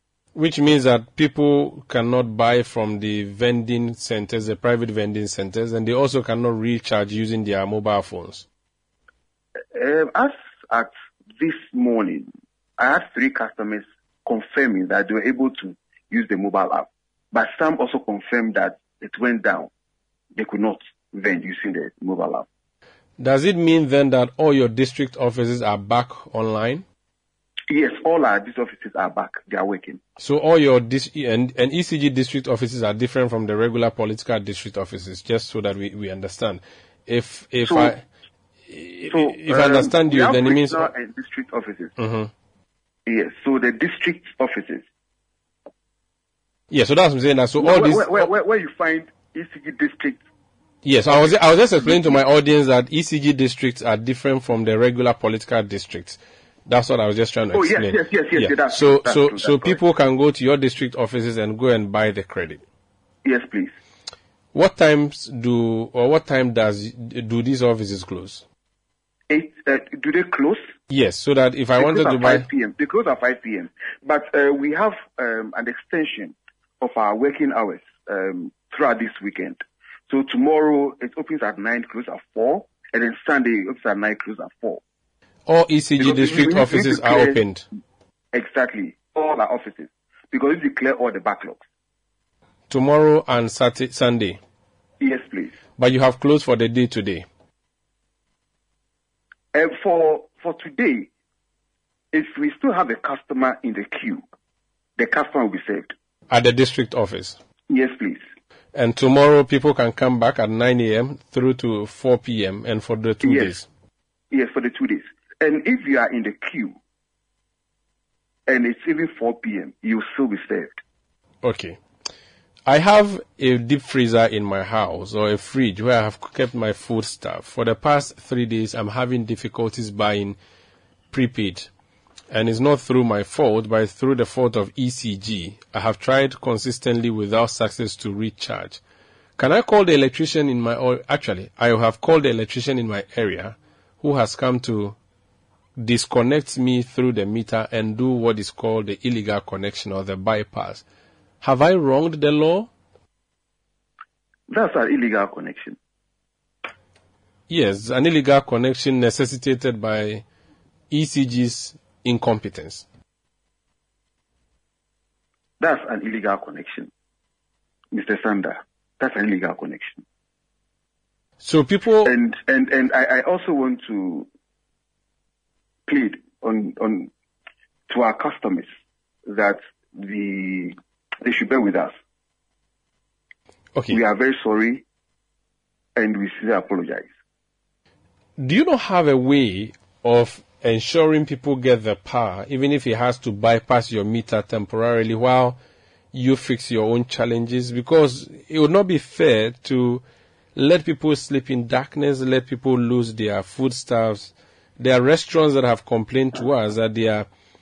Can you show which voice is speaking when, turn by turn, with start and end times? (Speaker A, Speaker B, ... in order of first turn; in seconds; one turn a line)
Speaker A: 0.3-8.4
Speaker B: 9.7-12.3
Speaker B: 12.8-19.7
Speaker B: 20.4-22.4
Speaker A: 23.2-26.8
Speaker B: 27.7-30.0
Speaker A: 30.2-38.0
Speaker B: 37.7-37.9
Speaker A: 38.7-40.9
Speaker B: 39.1-41.9
Speaker A: 42.0-42.3
Speaker B: 43.1-44.9
Speaker A: 46.7-48.3
Speaker B: 47.6-50.2
Speaker A: 50.8-62.6
Speaker B: 51.1-52.2
Speaker B: 57.5-59.8
Speaker B: 63.2-63.7
Speaker A: 64.5-68.4
Speaker B: 69.3-70.7
Speaker A: 70.9-72.5
Speaker B: 71.8-84.8
Speaker A: 85.5-87.6
Speaker B: 86.0-87.4
Speaker B: 88.3-91.6
Speaker A: 92.7-94.4
Speaker B: 95.0-95.5
Speaker A: 95.8-97.2
Speaker B: 99.5-101.1
Speaker B: 102.1-104.2
Speaker B: 105.0-105.9
Speaker A: 106.3-107.4
Speaker B: 107.7-108.2
Speaker A: 108.7-113.7
Speaker B: 113.2-113.5
Speaker B: 114.3-116.8
Speaker B: 118.5-120.8
Speaker A: 121.4-121.8
Speaker A: 122.7-130.4
Speaker A: 131.1-131.7
Speaker A: 132.3-138.8
Speaker A: 139.4-145.0
Speaker A: 145.8-150.8
Speaker A: 151.4-152.7
Speaker B: 154.5-155.8
Speaker A: 157.5-160.2
Speaker A: 160.9-162.8
Speaker B: 165.6-166.9
Speaker B: 167.9-170.0
Speaker A: 171.4-172.1
Speaker B: 172.1-174.3
Speaker B: 175.9-177.1
Speaker B: 177.9-178.7
Speaker B: 179.3-181.9
Speaker B: 183.9-184.8
Speaker B: 186.0-187.1
Speaker A: 188.4-195.6
Speaker A: 196.1-200.0
Speaker A: 200.6-207.3